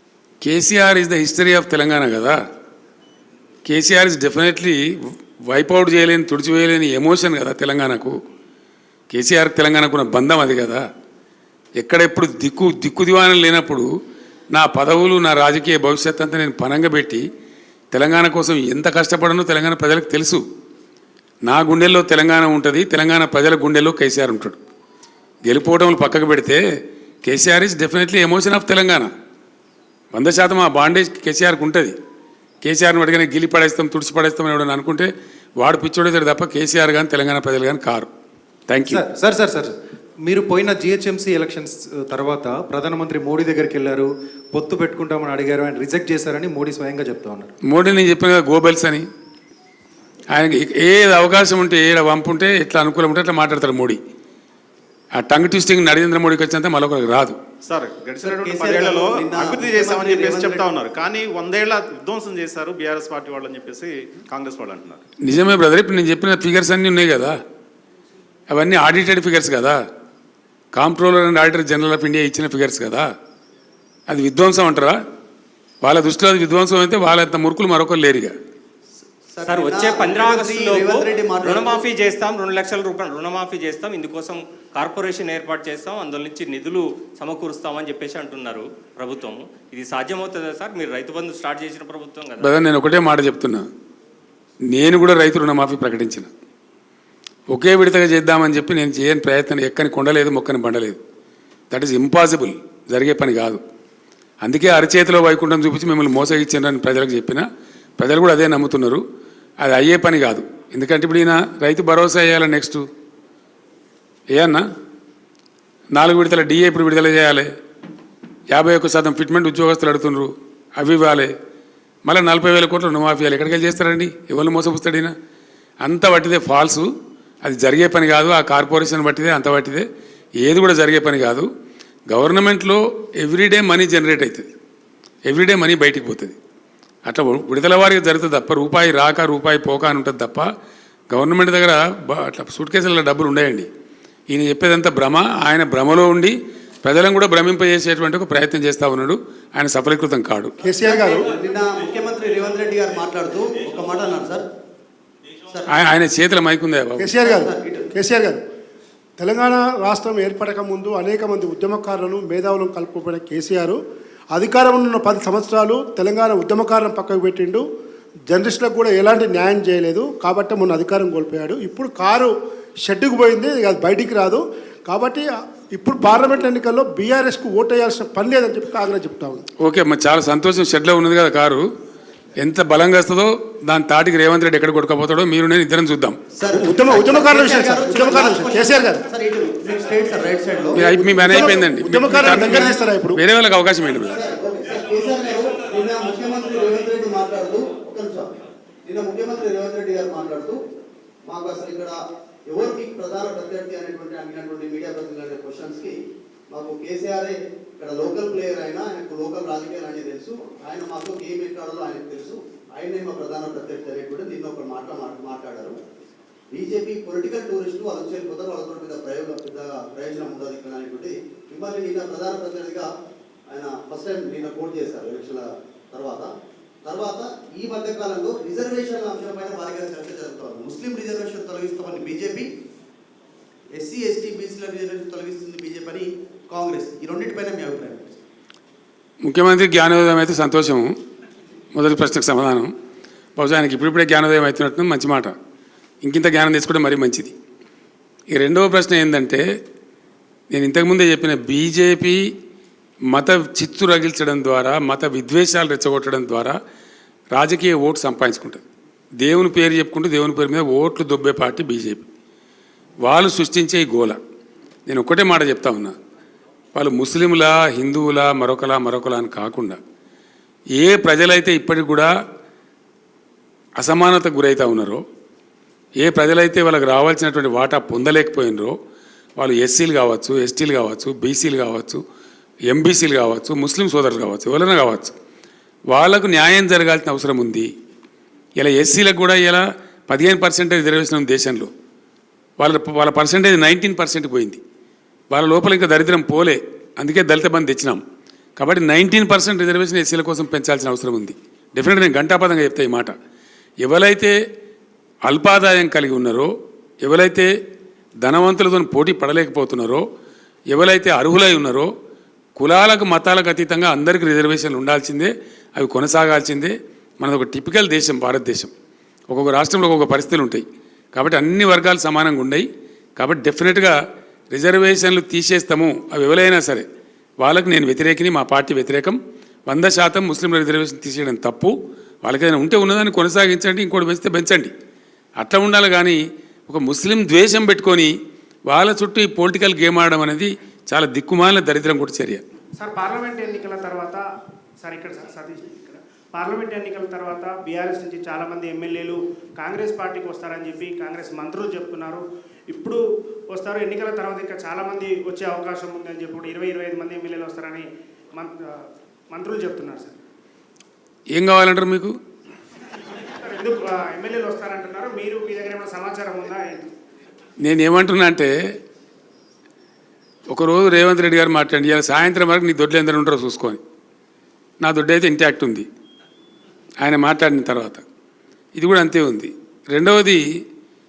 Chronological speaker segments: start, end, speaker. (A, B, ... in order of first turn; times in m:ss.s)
0:00.4-0:02.4 A
0:03.7-0:08.2 A
0:09.1-0:10.8 A
0:11.8-0:13.9 A
0:14.5-0:17.2 A
0:17.9-0:20.4 A
0:21.5-0:24.6 A
0:25.4-0:26.6 A
0:27.2-0:29.1 A
0:30.1-0:31.9 A
0:32.6-0:38.1 A
0:38.7-0:39.0 A
0:38.9-0:47.5 B
0:47.6-0:49.1 A
0:50.3-0:54.0 A
0:55.1-0:57.4 A
0:57.6-1:05.0 C
0:58.2-1:00.7 D
1:05.2-1:07.4 A
1:08.5-1:09.8 A
1:10.7-1:13.1 A
1:14.1-1:15.0 A
1:15.8-1:18.3 A
1:19.3-1:21.9 D
1:19.4-1:32.6 E
1:32.4-1:33.7 A
1:34.7-1:36.3 A
1:37.5-1:41.0 A
1:41.7-1:43.6 A
1:44.4-1:47.5 A
1:48.0-1:49.0 A
1:49.6-1:52.8 A
1:54.3-1:54.6 A
1:55.9-1:57.5 A
1:58.5-2:01.3 A
2:02.1-2:05.1 A
2:05.8-2:06.9 A
2:07.4-2:09.9 A
2:10.4-2:11.5 A
2:12.1-2:14.5 A
2:15.3-2:16.4 A
2:17.0-2:20.5 A
2:21.1-2:23.7 A
2:24.3-2:30.6 A
2:30.6-2:31.3 F
2:30.8-2:34.4 D
2:35.7-2:37.2 A
2:37.0-2:38.4 F
2:37.2-2:37.9 D
2:39.2-2:43.8 F
2:44.3-2:47.6 F
2:48.3-2:59.4 F
2:59.6-3:01.7 A
3:02.4-3:06.2 A
3:06.4-3:11.4 D
3:06.5-3:09.0 F
3:10.7-3:14.2 A
3:11.0-3:13.2 F
3:12.2-3:12.9 D
3:14.1-3:20.6 D
3:21.3-3:22.0 D
3:22.5-3:26.0 D
3:26.5-3:35.8 D
3:36.5-3:42.9 D
3:43.5-3:46.3 D
3:46.8-3:52.5 D
3:53.8-3:58.2 D
3:59.2-4:00.9 A
4:01.7-4:02.7 A
4:03.4-4:05.3 A
4:06.0-4:07.3 A
4:08.3-4:09.4 A
4:10.5-4:12.2 A
4:13.1-4:16.6 A
4:17.3-4:18.6 A
4:19.2-4:22.1 A
4:23.0-4:24.2 A
4:24.9-4:25.9 A
4:26.8-4:29.8 A
4:30.8-4:32.1 A
4:33.8-4:35.0 A
4:36.0-4:38.8 A
4:39.4-4:42.0 A
4:42.7-4:45.1 A
4:45.9-4:47.7 A
4:48.6-4:51.7 A
4:52.6-4:54.6 A
4:55.3-4:58.0 A
4:58.6-5:03.1 A
5:03.8-5:04.3 A
5:05.2-5:07.5 A
5:08.2-5:10.0 A
5:10.7-5:11.9 A
5:12.6-5:18.7 A
5:19.3-5:24.0 A
5:24.5-5:26.9 A
5:27.4-5:34.7 A
5:35.4-5:38.1 A
5:38.7-5:42.4 A
5:42.8-5:44.2 G
5:44.8-5:53.0 G
5:53.5-5:57.9 G
5:59.3-6:00.2 G
6:01.3-6:02.1 A
6:03.4-6:06.9 G
6:07.6-6:08.5 A
6:10.5-6:13.8 A
6:14.8-6:15.9 A
6:17.0-6:18.0 A
6:18.8-6:20.4 A